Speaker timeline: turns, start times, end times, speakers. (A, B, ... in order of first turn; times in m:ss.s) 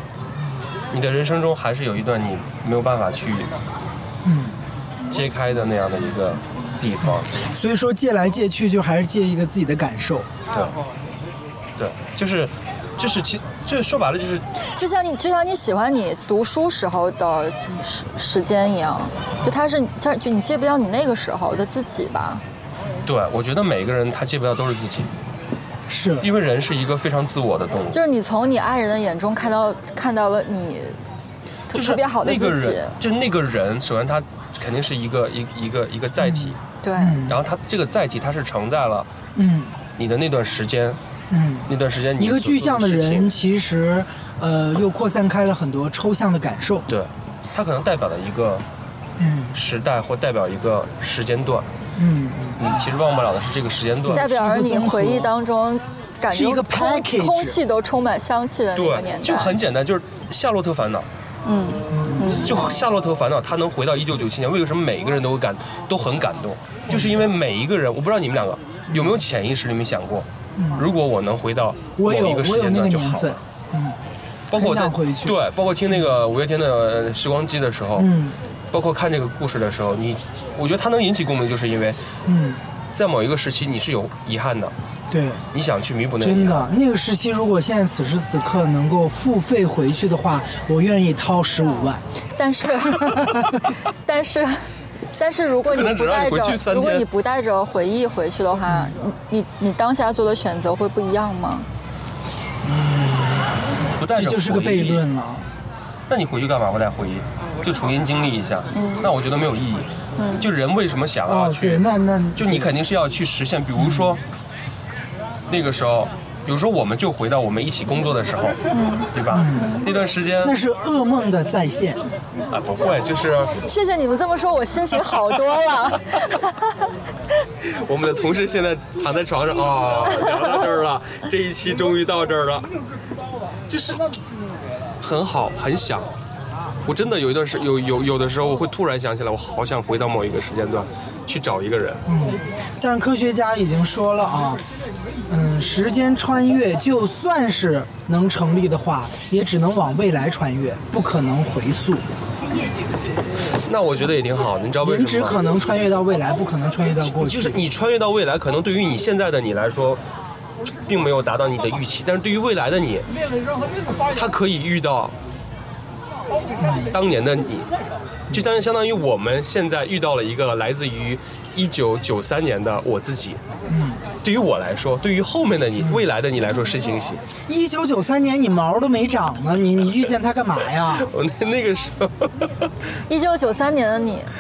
0:00.9-0:03.5 A
0:04.2-0:04.6 B
0:05.1-0:07.4 A
0:07.4-0:10.3 B
0:10.5-0:10.8 A
0:11.8-0:14.5 A
0:14.7-0:22.4 C
0:23.0-0:25.1 A
0:25.9-0:26.3 B
0:26.2-0:28.0 A
0:27.9-0:31.0 C
0:31.7-0:33.0 C
0:31.7-0:36.6 A
0:36.2-0:37.4 B
0:36.8-0:37.2 C
0:37.3-0:39.1 A
0:39.4-0:39.8 B
0:40.0-0:41.0 A
0:41.3-0:46.9 B
0:41.7-0:43.3 A
0:46.9-0:48.6 A
0:49.2-0:49.6 B
0:49.5-0:51.7 A
0:52.0-0:52.9 B
0:52.6-0:54.3 A
0:54.1-0:55.3 B
0:54.1-0:59.6 C
0:56.3-0:57.6 B
0:58.8-1:01.1 A
1:01.4-1:02.7 C
1:01.9-1:02.6 B
1:02.3-1:13.4 A
1:06.9-1:07.2 B
1:08.9-1:09.2 B
1:10.6-1:10.9 B
1:12.0-1:14.0 B
1:14.5-1:18.1 A
1:14.5-1:15.4 B
1:18.0-1:18.4 B
1:18.7-1:22.0 A
1:22.3-1:22.6 B
1:23.0-1:24.7 A
1:25.1-1:25.4 B
1:25.5-1:26.7 A
1:26.2-1:32.0 B
1:32.4-1:41.7 C
1:32.8-1:33.6 B
1:35.6-1:37.0 A
1:38.7-1:39.0 B
1:42.6-1:45.5 B
1:44.0-1:45.0 A
1:46.1-1:54.2 A
1:48.7-1:49.0 C
1:50.2-1:50.5 C
1:51.3-1:52.7 B
1:53.8-1:54.2 B
1:55.5-1:58.6 A
1:58.7-1:59.1 C
1:59.1-2:00.6 A
1:59.3-1:59.9 B
2:00.4-2:02.0 B
2:02.5-2:03.6 A
2:03.6-2:06.9 C
2:07.6-2:12.7 A
2:13.7-2:14.0 A
2:15.0-2:16.1 A
2:16.9-2:22.0 A
2:22.1-2:24.6 B
2:25.3-2:32.0 B
2:33.6-2:35.4 A
2:34.8-2:37.6 B
2:37.0-2:40.0 A
2:40.8-2:43.1 A
2:44.1-2:45.1 A
2:46.6-2:46.9 B
2:46.9-2:47.7 A
2:48.3-2:53.4 A
2:53.7-2:54.0 B
2:54.2-2:57.2 A
2:55.8-2:56.0 B
2:57.5-3:01.1 B
3:00.9-3:02.5 A
3:03.1-3:04.3 C